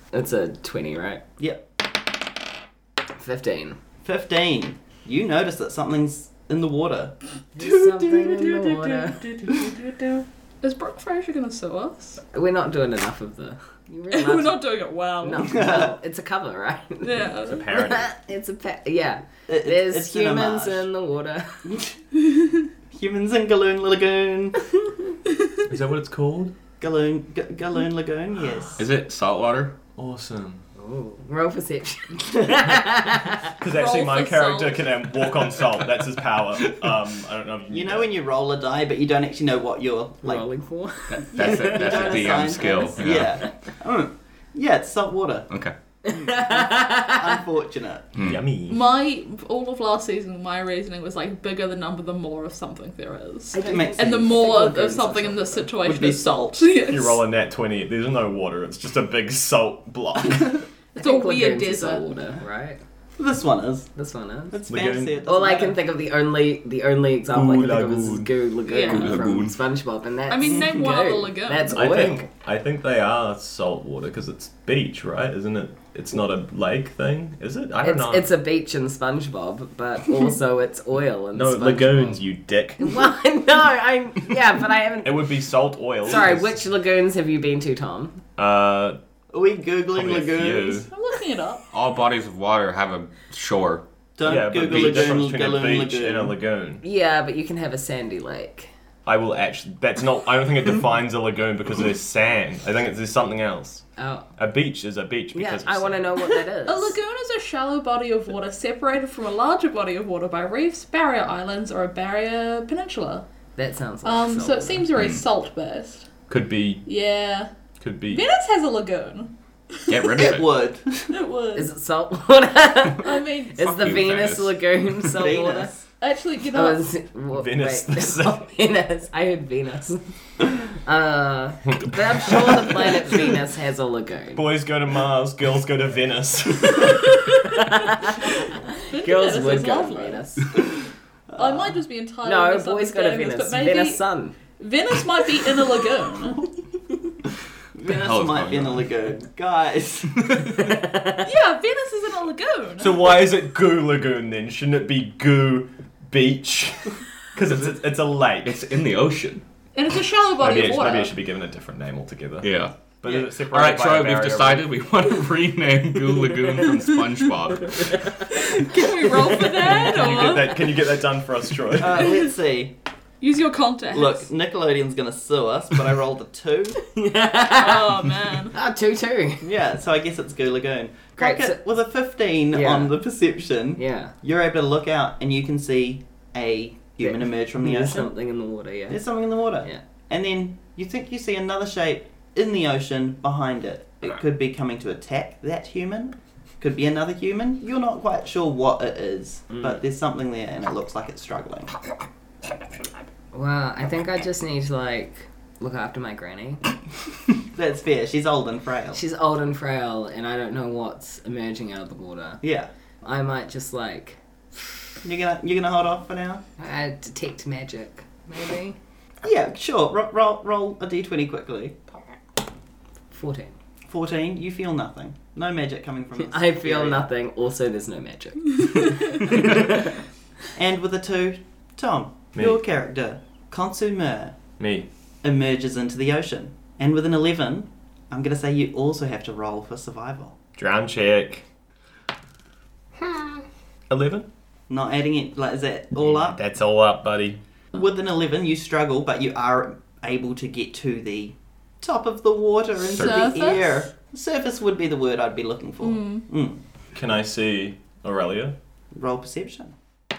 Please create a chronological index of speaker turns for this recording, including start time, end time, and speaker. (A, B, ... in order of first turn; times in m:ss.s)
0:00.1-0:01.2 A
0:03.2-0:03.8 A
0:04.0-0:08.2 B
0:07.5-0:09.5 A
0:08.3-0:12.2 C
0:12.3-0:14.6 A
0:14.1-0:15.6 C
0:15.2-0:21.7 A
0:15.4-0:15.9 B
0:17.0-0:17.6 C
0:17.4-0:18.1 D
0:19.5-0:20.9 B
0:21.6-0:22.0 B
0:22.9-0:24.6 B
0:25.6-0:26.5 D
0:26.8-0:28.8 B
0:28.8-0:29.8 E
0:29.9-0:30.6 D
0:30.8-0:33.5 A
0:33.5-0:38.1 D
0:33.6-0:35.0 C
0:37.7-0:40.4 B
0:40.2-0:42.6 A
0:41.1-0:43.4 E
0:41.3-0:45.5 B
0:46.1-0:47.3 A
0:46.1-0:48.1 B
0:48.2-0:48.4 E
0:48.2-0:48.8 D
0:48.7-0:57.2 C
0:53.5-0:55.7 A
0:53.5-0:54.3 B
0:55.8-0:56.7 B
0:56.8-1:00.6 D
1:00.9-1:02.1 C
1:01.0-1:02.8 A
1:03.2-1:03.9 B
1:04.0-1:04.6 A
1:04.5-1:05.8 B
1:04.7-1:05.1 D
1:05.2-1:12.2 A
1:07.3-1:08.3 D
1:08.7-1:09.2 C
1:08.8-1:09.6 E
1:10.3-1:11.8 C
1:11.7-1:18.3 D
1:17.8-1:22.2 A
1:21.3-1:23.0 D
1:22.8-1:25.3 A
1:25.0-1:26.6 D
1:26.0-1:28.2 A
1:28.4-1:29.0 D
1:29.3-1:30.8 B
1:29.9-1:30.9 D
1:30.9-1:31.6 C
1:31.7-1:33.8 E
1:34.2-1:36.3 B
1:34.2-1:36.8 D
1:34.6-1:35.1 E
1:36.8-1:38.7 A
1:39.0-1:43.8 D
1:44.0-1:44.3 A
1:44.4-1:46.1 D
1:45.3-1:47.0 A
1:46.6-1:53.2 C
1:53.6-1:54.9 A
1:54.0-1:56.1 C
1:55.0-1:55.2 E
1:56.3-1:56.8 D
1:56.8-1:57.5 C
1:57.8-1:58.2 D
1:58.1-2:00.3 C
1:59.9-2:00.5 E
2:00.1-2:01.1 B
2:01.1-2:01.7 C
2:01.5-2:05.7 A
2:03.0-2:03.7 C
2:03.6-2:04.6 E
2:05.1-2:05.8 B
2:06.0-2:06.8 C
2:06.5-2:14.5 A
2:07.3-2:08.4 D
2:14.3-2:17.2 D
2:17.5-2:20.5 A
2:18.9-2:20.6 C
2:21.3-2:21.8 B
2:21.4-2:24.0 C
2:22.2-2:24.3 A
2:24.6-2:26.4 C
2:27.7-2:30.5 B
2:27.8-2:28.9 E
2:30.2-2:30.6 E
2:30.6-2:31.2 A
2:31.2-2:33.0 C
2:32.8-2:38.6 D
2:38.4-2:39.4 E
2:39.7-2:41.2 C
2:40.4-2:44.7 D
2:42.4-2:48.2 E
2:48.3-2:50.6 C
2:49.8-2:52.2 D
2:51.8-2:52.8 B
2:53.2-2:54.3 C
2:53.9-2:56.8 B
2:56.9-2:58.0 A
2:57.5-2:58.5 C
2:58.5-2:59.4 A
2:59.4-3:08.1 B
3:01.2-3:01.6 A
3:02.5-3:03.0 A
3:03.8-3:04.1 A
3:07.0-3:09.0 A
3:08.9-3:21.7 B
3:19.5-3:19.8 A
3:23.3-3:26.6 A
3:27.5-3:29.0 B
3:28.9-3:32.4 A
3:32.4-3:32.7 B
3:33.0-3:34.8 A
3:35.0-3:36.4 B
3:36.6-3:38.8 A
3:39.2-3:41.8 B
3:43.1-3:43.5 A
3:43.9-3:47.1 B
3:46.2-3:49.9 A
3:50.5-3:54.4 B
3:52.3-3:52.6 D
3:54.6-3:54.9 D
3:55.2-4:00.4 B
4:00.6-4:01.4 D
4:03.9-4:04.3 D
4:04.7-4:06.4 B
4:06.0-4:07.4 D
4:07.7-4:16.6 B
4:12.9-4:13.8 C
4:15.8-4:16.2 C
4:16.9-4:18.5 D
4:18.9-4:19.7 B